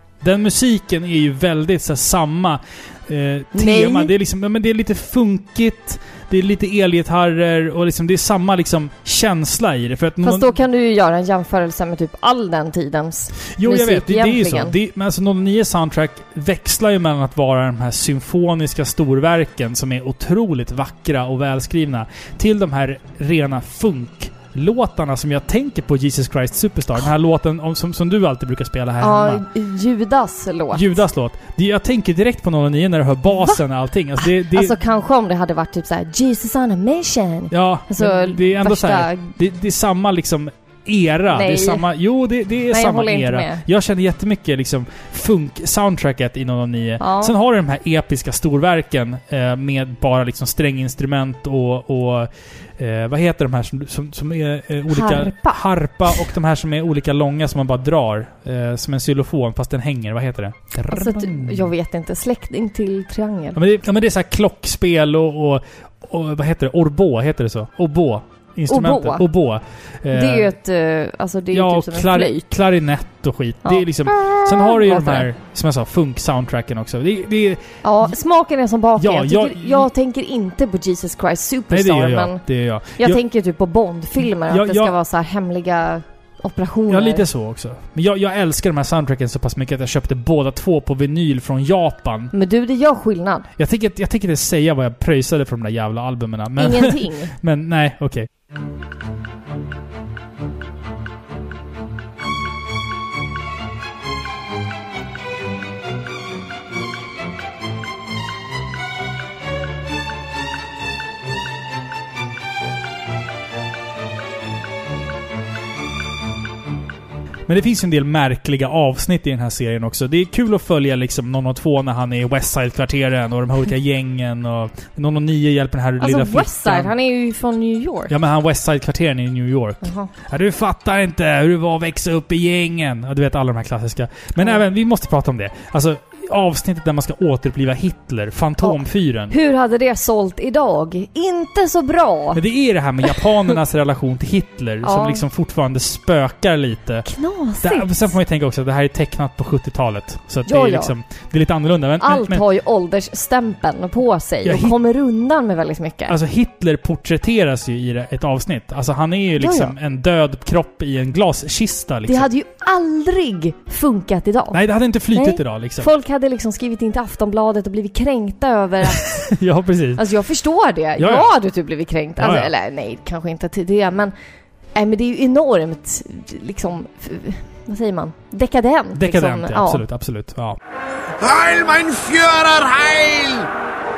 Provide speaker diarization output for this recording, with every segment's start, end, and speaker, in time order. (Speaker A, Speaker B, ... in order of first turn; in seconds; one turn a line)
Speaker A: 0.2-10.5
Speaker B: 3.5-4.1
Speaker B: 10.2-14.8
Speaker A: 13.5-29.4
Speaker B: 29.0-31.0
Speaker A: 30.7-34.8
Speaker B: 34.2-39.3
Speaker A: 37.5-61.7
Speaker B: 41.3-41.9
Speaker B: 42.7-43.6
Speaker B: 47.0-47.3
Speaker B: 54.9-56.2
Speaker B: 60.9-63.6
Speaker A: 63.6-70.5
Speaker B: 68.7-69.2
Speaker B: 70.1-72.5
Speaker A: 71.5-78.1
Speaker B: 73.6-75.3
Speaker B: 77.8-82.4
Speaker A: 79.0-79.9
Speaker A: 81.7-83.2
Speaker B: 83.0-87.2
Speaker A: 84.5-84.9
Speaker A: 86.9-92.3
Speaker B: 92.3-93.5
Speaker A: 93.6-98.3
Speaker B: 96.6-97.3
Speaker A: 117.5-126.9
Speaker B: 126.0-128.1
Speaker A: 128.1-139.3
Speaker B: 129.8-130.1
Speaker B: 138.6-142.4
Speaker A: 142.3-147.1
Speaker B: 144.8-145.2
Speaker B: 147.1-148.1
Speaker A: 147.6-152.4
Speaker B: 150.5-150.9
Speaker B: 152.0-156.2
Speaker A: 154.4-154.7
Speaker A: 156.1-162.3
Speaker B: 159.4-159.8
Speaker B: 162.1-164.6
Speaker A: 164.5-165.9
Speaker B: 165.1-169.3
Speaker A: 168.9-170.0
Speaker B: 170.0-174.1
Speaker A: 171.0-171.3
Speaker A: 172.2-172.5
Speaker B: 174.8-179.8
Speaker A: 178.9-180.6
Speaker C: 181.2-183.5